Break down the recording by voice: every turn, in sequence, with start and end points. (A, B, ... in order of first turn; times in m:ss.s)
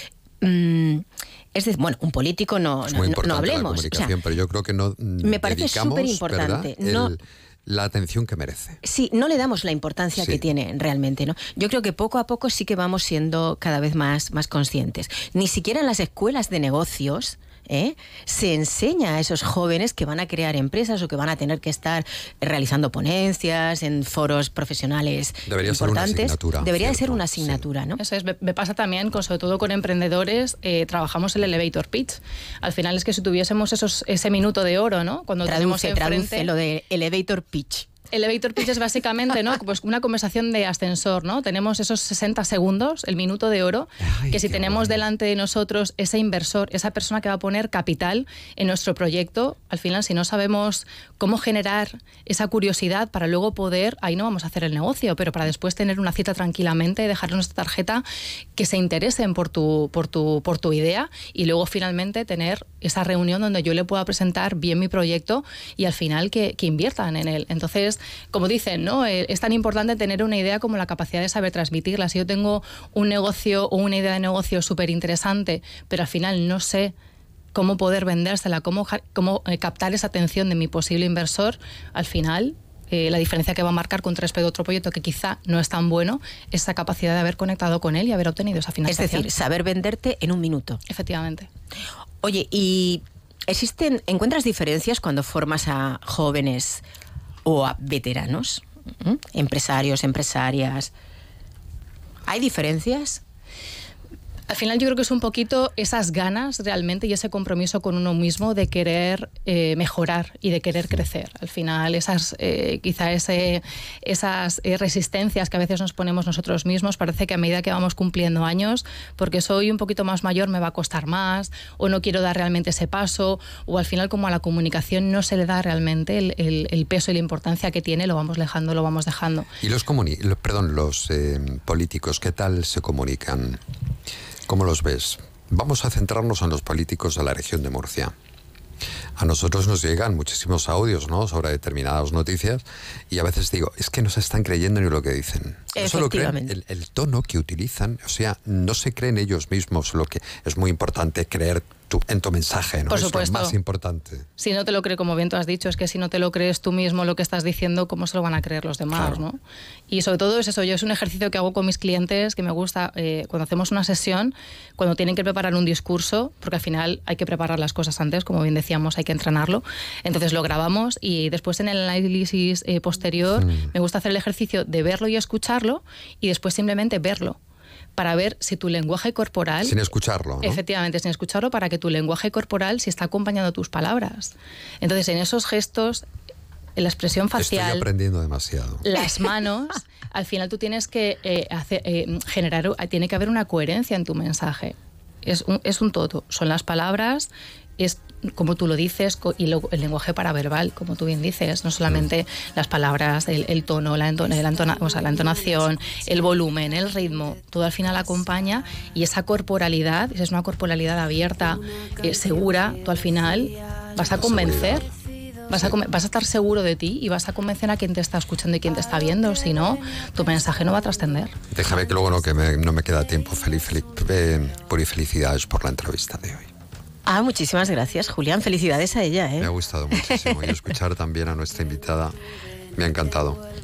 0:00.4-0:04.1 A
0:02.9-0:08.8 B
0:05.2-0:07.1 A
0:08.8-0:28.0 A
0:10.2-0:10.4 B
0:25.5-0:27.6 B
0:28.0-0:36.5 C
0:35.4-0:37.9 A
0:38.1-0:58.0 C
0:44.0-0:45.0 B
0:58.6-1:16.9 C
1:17.5-1:29.2 C
1:28.9-1:30.8 A
1:30.9-1:31.5 C
1:32.2-1:36.8 A
1:37.4-1:40.9 A
1:42.3-1:43.2 A
1:44.5-2:09.5 C
2:09.6-2:13.6 B
2:14.5-2:18.1 B
2:19.2-2:34.3 B
2:25.7-2:26.5 A
2:32.9-2:33.5 C
2:34.4-2:57.4 C
2:38.9-2:39.2 B
2:53.3-2:53.7 B
2:58.0-2:59.8 C
2:59.6-3:00.6 B
3:00.4-3:06.0 C
3:06.8-3:07.8 C
3:07.4-3:08.9 B
3:08.8-3:34.8 C
3:34.1-3:34.9 B
3:35.5-3:41.4 C
3:41.5-3:46.5 B
3:47.0-3:50.5 A
3:49.4-3:52.2 B
3:52.7-3:53.4 B